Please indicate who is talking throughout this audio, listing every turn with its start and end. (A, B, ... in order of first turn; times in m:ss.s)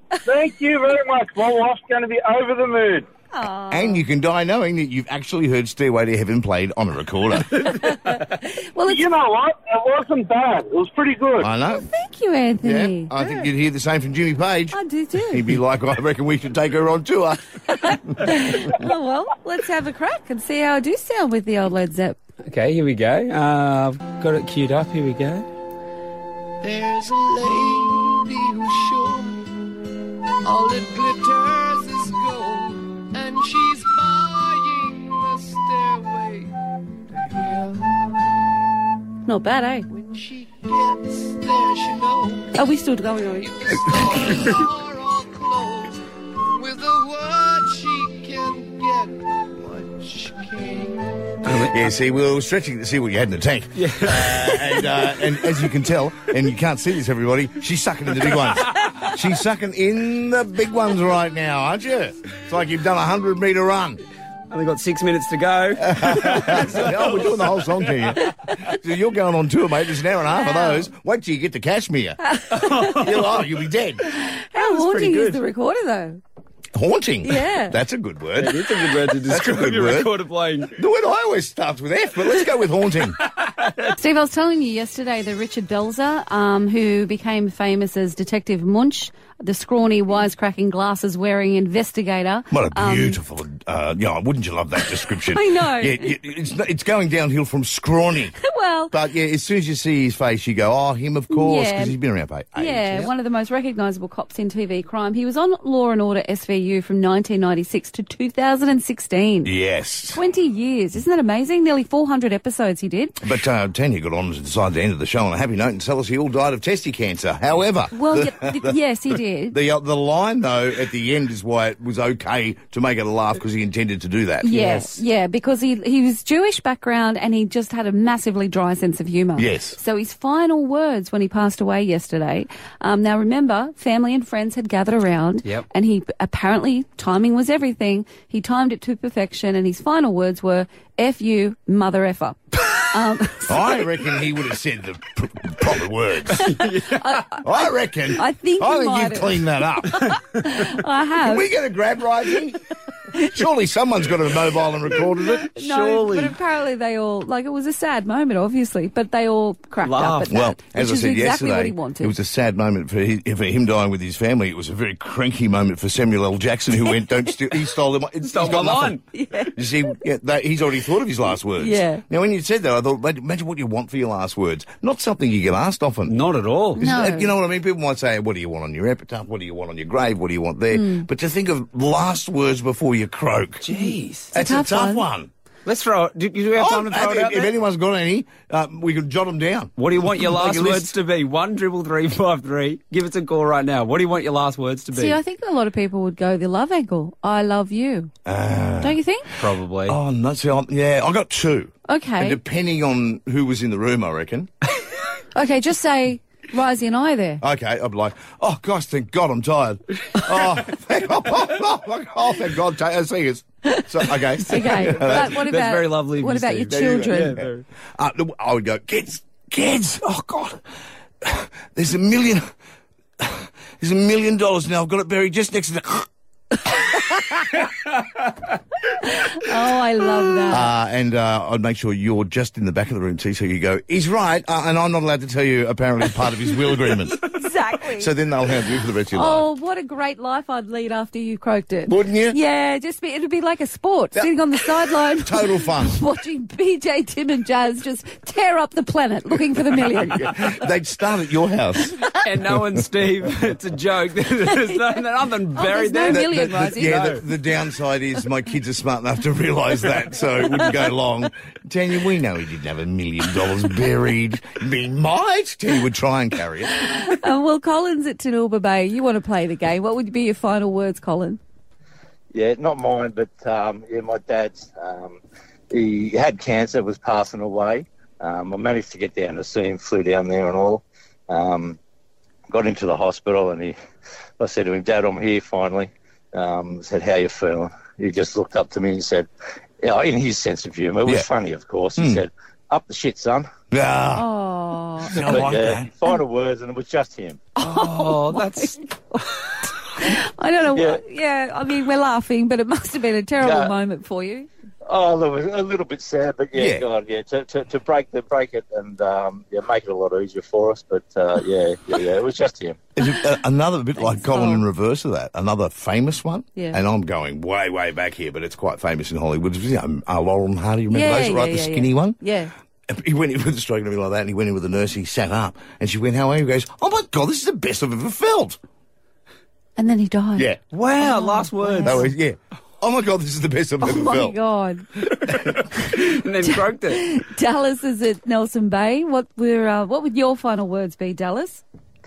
0:00.2-0:03.1 A
0:03.3-0:04.0 B
0:03.7-0:07.7 C
0:07.6-0:09.1 B
0:08.8-0:11.5 A
0:11.4-0:11.9 C
0:11.7-0:13.5 B
0:12.6-0:18.7 C
0:14.7-0:15.5 B
0:17.8-0:22.2 B
0:22.4-0:25.4 D
0:26.6-0:29.5 E
0:30.4-0:36.5 E
0:37.1-0:38.5 E
0:39.2-0:39.9 B
0:39.9-0:42.7 E
0:42.5-0:43.5 B
0:43.4-0:46.0 E
0:46.5-0:51.5 E
0:51.4-1:04.0 C
0:53.8-0:54.9 D
1:04.5-1:07.5 D
1:05.8-1:12.2 C
1:10.3-1:10.9 B
1:12.2-1:13.1 B
1:12.5-1:13.3 D
1:12.8-1:14.0 C
1:14.0-1:16.2 B
1:14.6-1:15.4 D
1:16.7-1:20.1 C
1:17.2-1:17.8 B
1:18.4-1:20.8 D
1:20.7-1:23.2 C
1:23.9-1:33.2 B
1:32.5-1:38.4 C
1:35.1-1:36.1 B
1:38.4-1:39.0 B
1:38.9-1:43.1 C
1:41.3-1:42.0 B
1:42.6-1:49.5 B
1:49.4-1:50.2 C
1:50.1-1:53.2 B
1:53.2-1:58.8 C
1:57.9-1:59.6 B
1:59.5-2:04.6 C
2:04.4-2:23.7 B
2:04.5-2:04.9 D
2:09.4-2:09.8 C
2:23.5-2:26.5 C
2:26.4-2:31.5 B
2:26.5-2:27.2 D
2:27.4-2:30.2 C
2:31.2-2:32.6 C
2:33.2-2:36.3 C
2:35.4-2:42.1 B
2:39.8-2:40.4 D
2:40.3-2:56.2 C
2:48.2-2:49.0 D
2:49.1-2:49.9 B
2:51.6-2:52.0 B
2:56.1-2:56.8 D
2:56.8-3:03.7 C
2:56.8-2:57.3 B
3:00.7-3:01.1 B
3:03.6-3:04.3 D
3:03.8-3:05.0 B
3:04.3-3:05.3 C
3:05.6-3:07.5 D
3:06.6-3:10.9 C
3:09.8-3:15.2 D
3:14.9-3:18.1 B
3:18.2-3:19.0 C
3:18.8-3:19.3 B
3:19.4-3:20.0 D
3:19.9-3:24.5 C
3:21.9-3:22.4 B
3:25.4-3:27.4 B
3:27.4-3:35.4 C
3:34.4-3:37.4 B
3:34.6-3:37.6 D
3:36.7-3:40.6 C
3:41.2-3:42.5 C
3:43.2-3:46.1 C
3:49.0-3:50.7 B
3:50.5-3:57.2 C
3:57.2-3:58.1 B
3:57.8-3:59.5 C
3:59.1-4:10.4 B
4:01.9-4:02.4 C
4:05.0-4:06.0 C
4:10.1-4:12.6 C
4:12.2-4:17.2 D
4:15.5-4:17.0 B
4:16.1-4:26.9 C
4:26.8-4:31.4 B
4:32.3-4:35.2 F
4:35.7-4:41.8 F
4:42.5-4:43.8 F
4:44.4-4:49.3 F
4:49.8-4:53.5 F
4:52.0-4:52.2 C
4:53.7-4:54.3 C
4:54.2-4:55.4 B
4:55.0-4:55.9 C
4:55.1-4:57.4 F
4:57.6-5:04.5 B
4:57.6-4:58.8 D
5:00.7-5:01.0 F
5:03.4-5:03.7 F
5:04.9-5:12.8 F
5:06.6-5:06.8 C
5:13.0-5:22.2 C
5:14.0-5:14.6 B
5:20.9-5:22.5 B
5:22.9-5:28.6 C
5:29.8-5:30.5 B
5:30.7-5:32.1 D
5:31.0-5:32.1 B
5:31.8-5:34.4 C
5:33.8-5:34.9 B
5:35.4-5:37.0 D
5:36.4-5:41.6 B